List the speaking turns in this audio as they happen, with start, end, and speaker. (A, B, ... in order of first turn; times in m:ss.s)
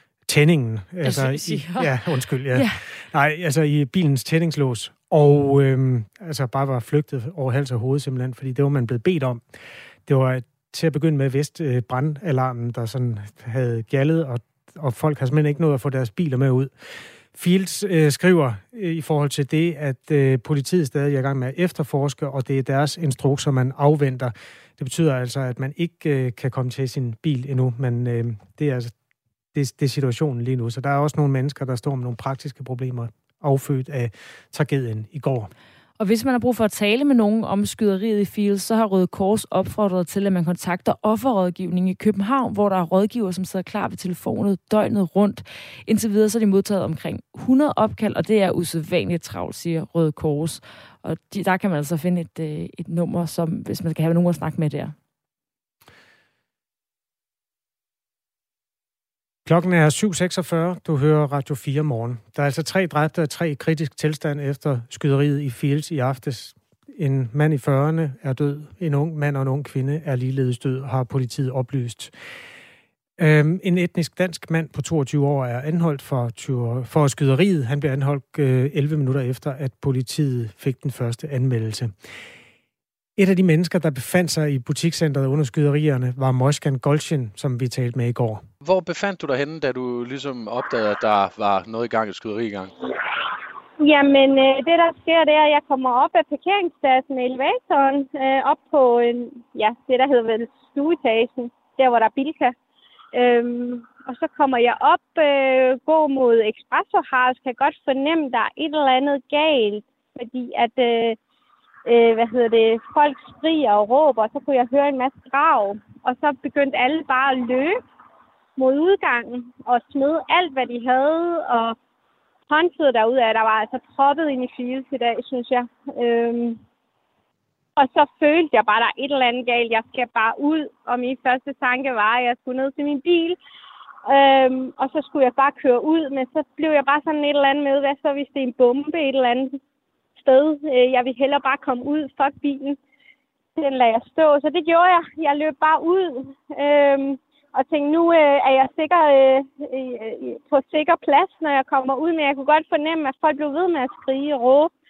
0:00.3-0:09.4 A
0:01.0-0:02.0 B
0:02.5-0:02.8 B
0:10.1-0:16.7 A
0:17.3-0:28.9 A
0:29.5-0:35.5 A
0:36.0-0:54.9 B
0:59.5-1:12.1 A
1:13.2-1:21.9 A
1:23.2-1:28.4 A
1:28.6-1:32.7 C
1:33.8-1:42.5 D
1:43.1-1:51.2 D
1:51.9-1:57.8 D
1:58.6-2:01.8 D
2:02.5-2:06.6 D
2:07.8-2:13.4 D
2:14.1-2:19.6 D
2:20.2-2:22.8 D
2:23.6-2:34.7 D